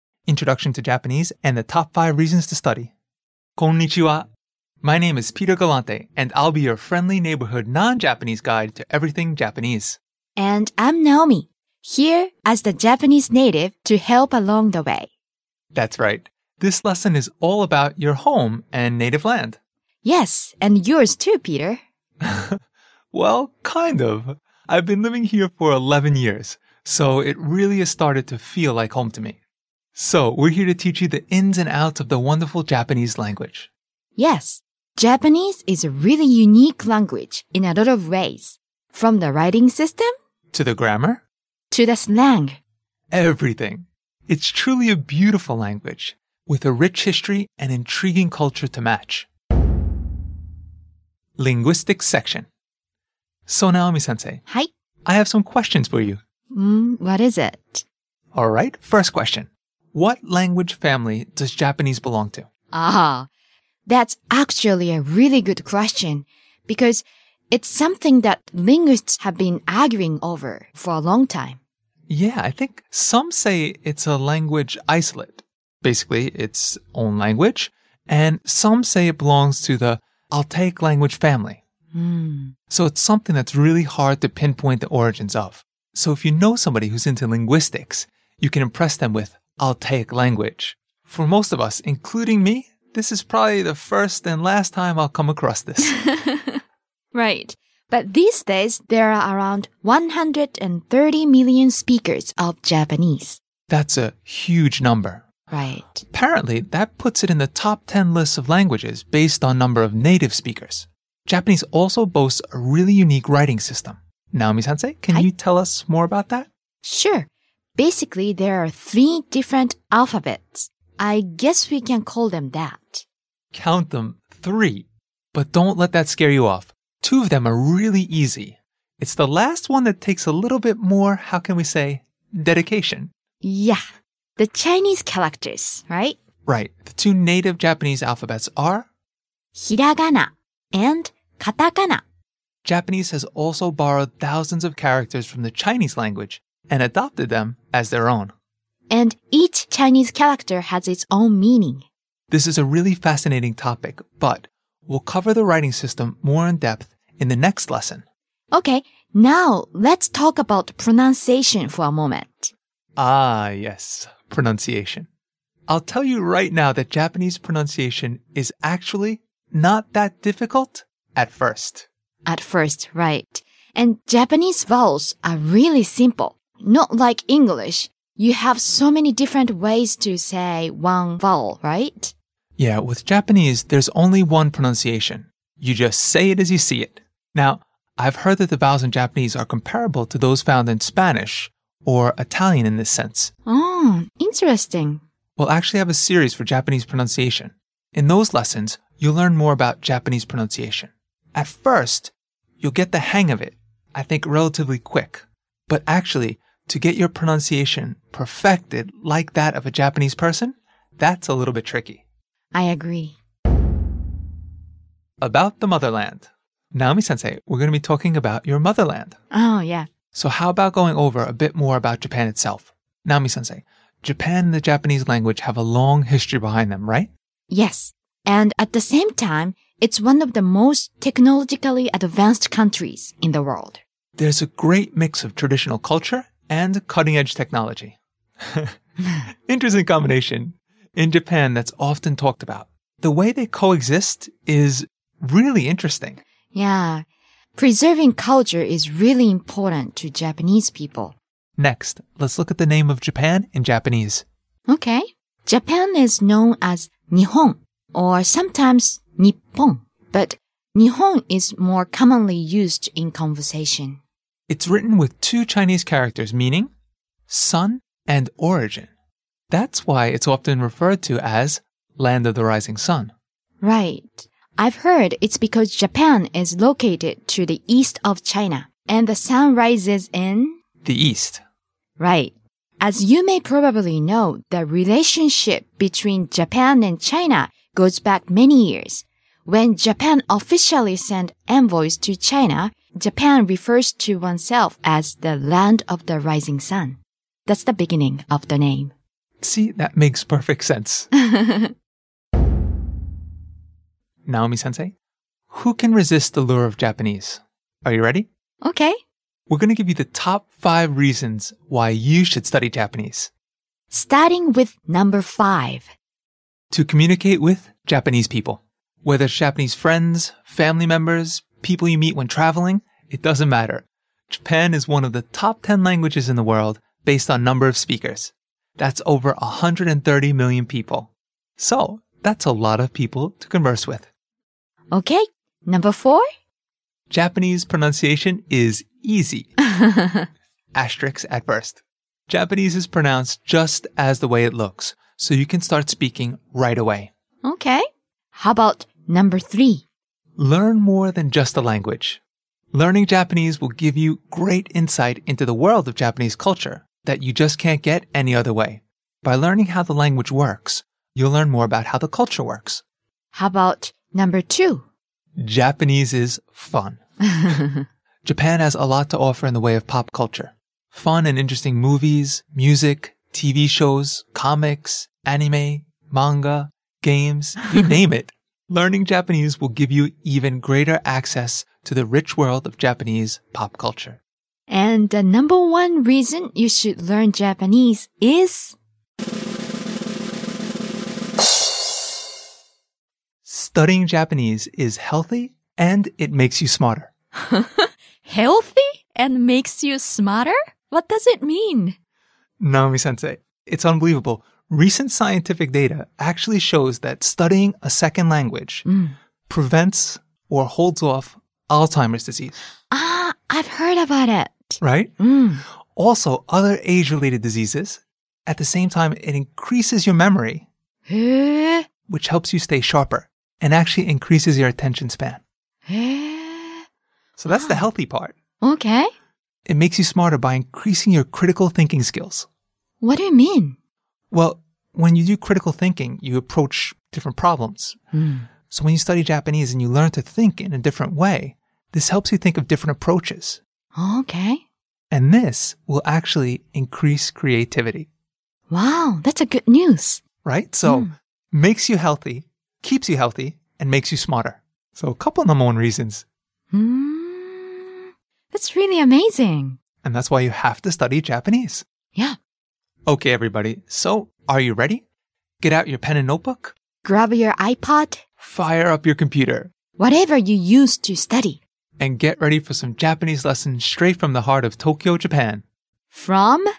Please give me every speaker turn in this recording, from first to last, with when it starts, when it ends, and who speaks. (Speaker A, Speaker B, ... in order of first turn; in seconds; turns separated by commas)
Speaker A: 0.3-2.9, Speaker A: 3.6-4.3, Speaker A: 4.8-10.0, Speaker B: 10.4-15.1, Speaker A: 15.7-19.6, Speaker B: 20.0-21.8, Speaker A: 22.2-22.6, Speaker A: 23.1-29.4, Speaker A: 29.9-33.7, Speaker B: 34.2-40.1, Speaker A: 40.5-41.2, Speaker B: 41.7-42.6, Speaker A: 43.1-49.3, Speaker A: 51.4-52.5, Speaker A: 53.5-54.4, Speaker A: 55.1-56.2, Speaker B: 56.5-57.9, Speaker A: 58.3-62.5, Speaker B: 62.7-63.3, Speaker B: 63.9-71.6, Speaker A: 72.1-81.6, Speaker B: 81.9-82.5, Speaker A: 82.7-96.0, Speaker B: 95.8-96.6, Speaker B: 97.1-103.4, Speaker A: 103.7-105.3, Speaker B: 105.5-106.0, Speaker A: 106.1-116.5, Speaker B: 116.8-123.1, Speaker A: 123.5-133.1, Speaker B: 133.4-133.8, Speaker B: 134.4-136.2, Speaker A: 136.5-138.9, Speaker B: 139.6-142.0, Speaker A: 142.7-148.3, Speaker B: 148.9-151.8, Speaker A: 152.3-158.0, Speaker B: 158.5-162.5, Speaker A: 163.0-165.1, Speaker A: 165.7-171.9, Speaker B: 172.3-182.1, Speaker A: 182.6-193.3, Speaker B: 193.5-195.0, Speaker A: 195.4-212.0, Speaker B: 212.5-213.2, Speaker A: 215.2-219.2, Speaker B: 219.3-219.9, Speaker A: 220.1-227.1, Speaker B: 227.5-233.8, Speaker A: 234.2-238.7, Speaker A: 239.5-246.2, Speaker B: 246.5-247.1, Speaker B: 247.6-251.2, Speaker A: 251.6-254.2, Speaker B: 254.7-264.0, Speaker A: 264.5-266.7, Speaker A: 267.3-268.9, Speaker A: 269.5-273.1, Speaker B: 273.6-280.6, Speaker A: 280.8-281.4, Speaker B: 282.0-298.9, Speaker A: 299.4-301.1, Speaker B: 301.1-301.7, Speaker A: 304.3-304.9, Speaker A: 305.5-308.3, Speaker B: 308.6-309.0, Speaker A: 309.5-313.3, Speaker B: 313.9-315.9, Speaker A: 316.7-334.1, Speaker B: 334.9-336.2, Speaker A: 337.1-339.5, Speaker B: 339.7-340.3, Speaker A: 340.8-347.1, Speaker B: 347.4-347.8, Speaker B: 348.3-349.8, Speaker A: 350.4-352.2, Speaker A: 352.7-362.8, Speaker B: 363.3-364.9, Speaker A: 365.4-367.6, Speaker B: 367.4-367.8, Speaker A: 368.2-384.2, Speaker B: 384.7-388.8, Speaker A: 393.4-397.1, Speaker B: 397.4-402.0, Speaker A: 402.6-408.9, Speaker B: 408.9-409.2, Speaker A: 409.5-412.6, Speaker B: 412.9-415.6, Speaker A: 414.8-415.1, Speaker A: 416.0-420.7, Speaker B: 421.1-421.9, Speaker A: 422.1-425.4, Speaker B: 425.9-426.8, Speaker A: 427.4-428.4, Speaker B: 427.5-427.9, Speaker B: 428.6-429.1, Speaker A: 429.7-432.5, Speaker B: 433.0-433.8, Speaker A: 434.3-438.0, Speaker B: 438.1-438.5, Speaker A: 438.7-443.6, Speaker B: 443.9-444.6, Speaker A: 445.1-448.1, Speaker B: 448.7-450.2, Speaker A: 450.4-456.2, Speaker B: 450.9-451.1, Speaker B: 456.7-458.0, Speaker B: 458.5-459.8, Speaker A: 460.0-461.9, Speaker A: 463.1-465.0, Speaker A: 465.6-466.7, Speaker B: 467.0-468.2, Speaker A: 468.4-469.7, Speaker B: 470.0-471.6, Speaker A: 472.0-475.6, Speaker B: 476.1-476.6